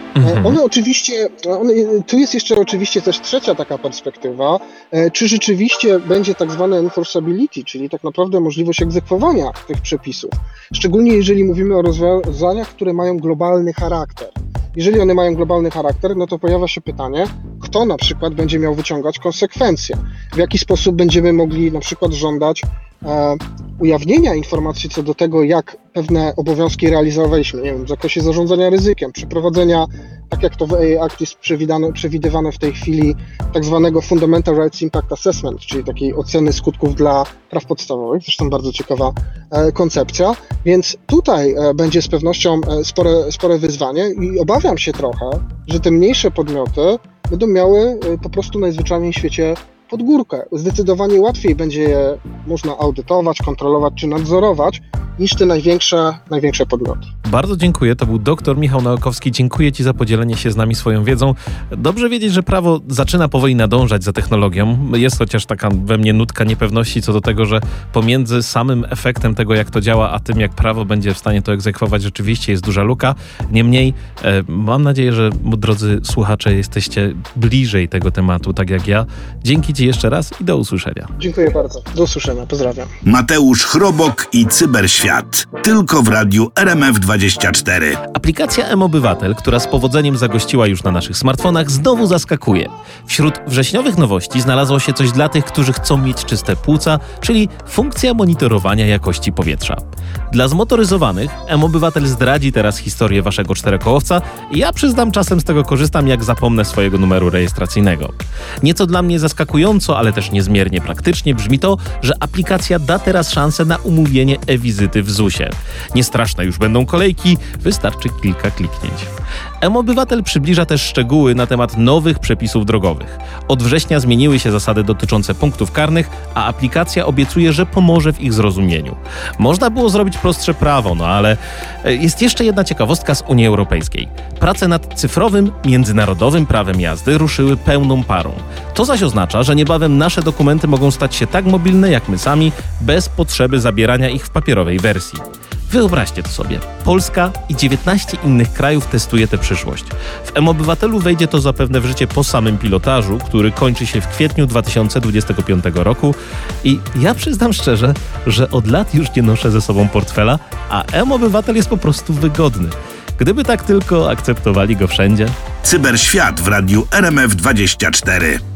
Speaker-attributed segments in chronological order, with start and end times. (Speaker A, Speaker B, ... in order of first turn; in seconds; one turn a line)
Speaker A: 0.2-0.6
Speaker B: 0.2-57.1
Speaker A: 57.2-81.1
Speaker B: 81.2-82.9
Speaker C: 83.0-88.0
Speaker A: 88.1-119.1
Speaker A: 119.6-165.3
Speaker C: 165.6-168.4